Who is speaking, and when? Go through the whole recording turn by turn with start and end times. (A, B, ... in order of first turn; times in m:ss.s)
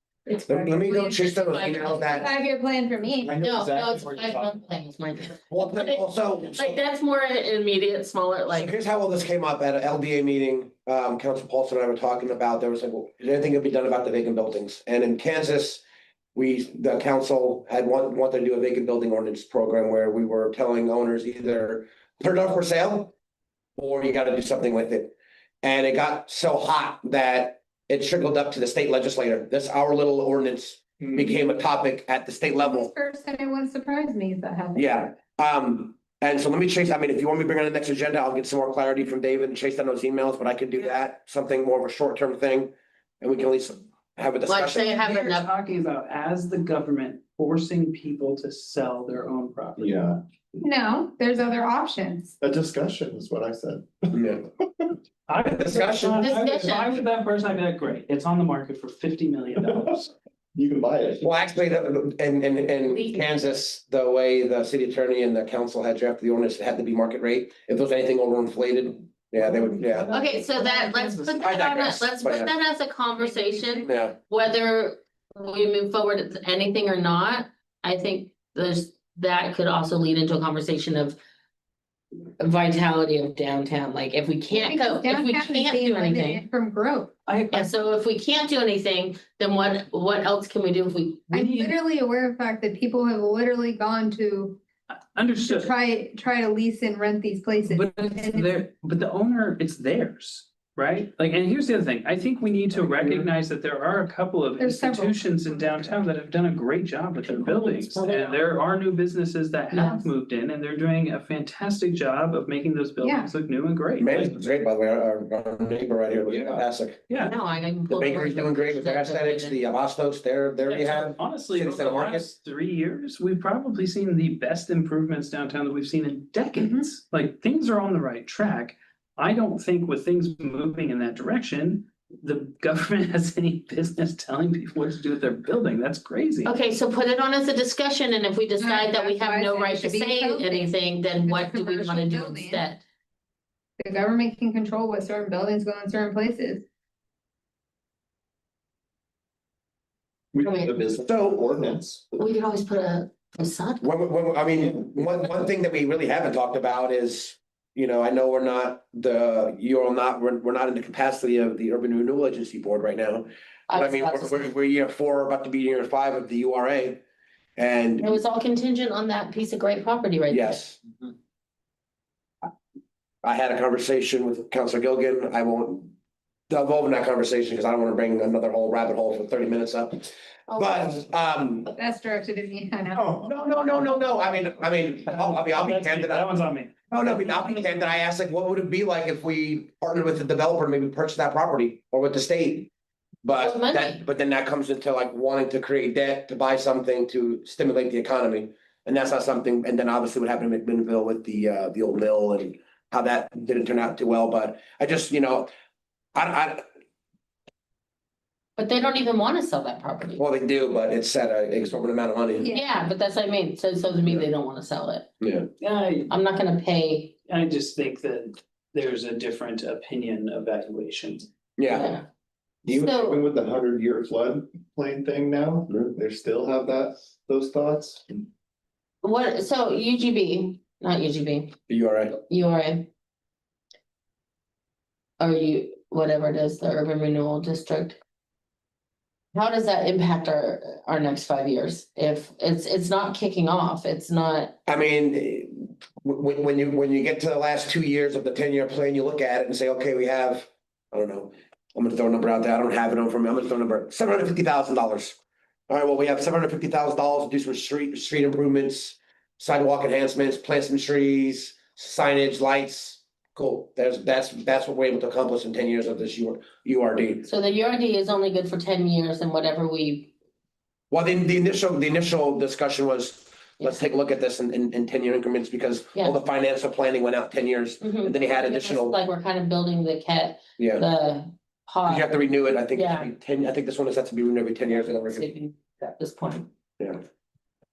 0:00.3-0:01.3 A
0:00.5-0:02.3 B
0:01.1-0:02.3 C
0:02.2-0:03.4 A
0:03.2-0:04.5 D
0:03.4-0:08.7 C
0:05.5-0:06.8 B
0:08.5-0:15.8 B
0:16.4-0:23.1 B
0:23.8-0:32.9 B
0:32.6-0:34.8 A
0:34.8-0:45.1 B
0:44.5-0:45.5 C
0:45.0-0:50.0 E
0:49.8-0:50.2 D
0:50.6-0:52.3 A
0:52.4-0:54.2 D
0:54.1-0:54.4 B
0:55.3-1:00.1 E
0:55.5-0:56.3 B
0:56.2-0:57.0 C
1:00.6-1:01.3 D
1:01.2-1:10.1 B
1:02.8-1:03.3 C
1:09.4-1:11.4 E
1:10.1-1:21.2 C
1:11.4-1:12.5 B
1:13.2-1:13.9 A
1:13.8-1:14.2 B
1:22.4-1:26.4 C
1:24.5-1:27.1 A
1:27.3-1:27.7 E
1:27.5-1:31.3 C
1:31.3-1:31.8 E
1:31.3-1:34.6 A
1:35.2-1:35.7 E
1:35.4-1:38.6 A
1:37.7-1:54.4 E
1:42.9-1:43.2 D
1:44.6-1:45.2 A
1:47.4-1:48.4 C
1:49.7-1:50.1 A
1:53.0-1:53.3 A
1:54.0-1:57.1 B
1:56.3-1:56.6 E
1:57.1-1:57.3 E
1:57.2-1:59.6 C
1:57.9-2:02.3 B
2:00.7-2:16.5 E
2:16.4-2:22.8 C
2:18.6-2:22.6 A
2:23.8-2:26.6 A
2:30.3-2:32.0 D
2:30.4-2:30.7 C
2:31.0-2:31.5 B
2:32.1-2:33.9 C
2:33.8-2:47.0 B
2:43.7-2:44.4 C
2:47.6-2:48.1 B
2:48.0-2:50.7 C
2:50.3-2:50.8 B
2:53.2-2:55.9 B
2:56.5-3:01.7 B
3:00.5-3:01.1 C
3:01.7-3:03.3 A
3:03.2-3:06.3 B
3:05.1-3:06.7 E
3:06.9-3:12.7 B
3:13.2-3:25.5 B
3:13.4-3:14.0 C
3:26.2-3:26.6 B
3:28.6-3:30.2 C
3:30.2-3:32.5 B
3:32.4-3:32.7 A
3:32.5-3:35.1 C
3:35.2-3:35.5 B
3:35.6-3:36.2 E
3:36.1-3:37.2 C
3:37.3-3:41.3 E
3:41.6-3:42.0 B
3:41.7-3:42.1 C
3:42.7-3:43.2 C
3:42.7-3:48.3 D
3:49.0-3:51.6 C
3:51.7-3:52.2 B
3:52.2-3:52.9 C
3:55.2-3:58.0 C
3:59.3-4:04.6 C
4:04.7-4:15.2 B
4:15.7-4:27.3 B
4:27.2-4:30.1 C
4:30.9-4:39.0 B
4:37.8-4:42.2 C
4:40.6-4:40.8 B
4:41.9-4:45.3 B
4:42.7-4:43.1 C
4:44.7-4:46.5 C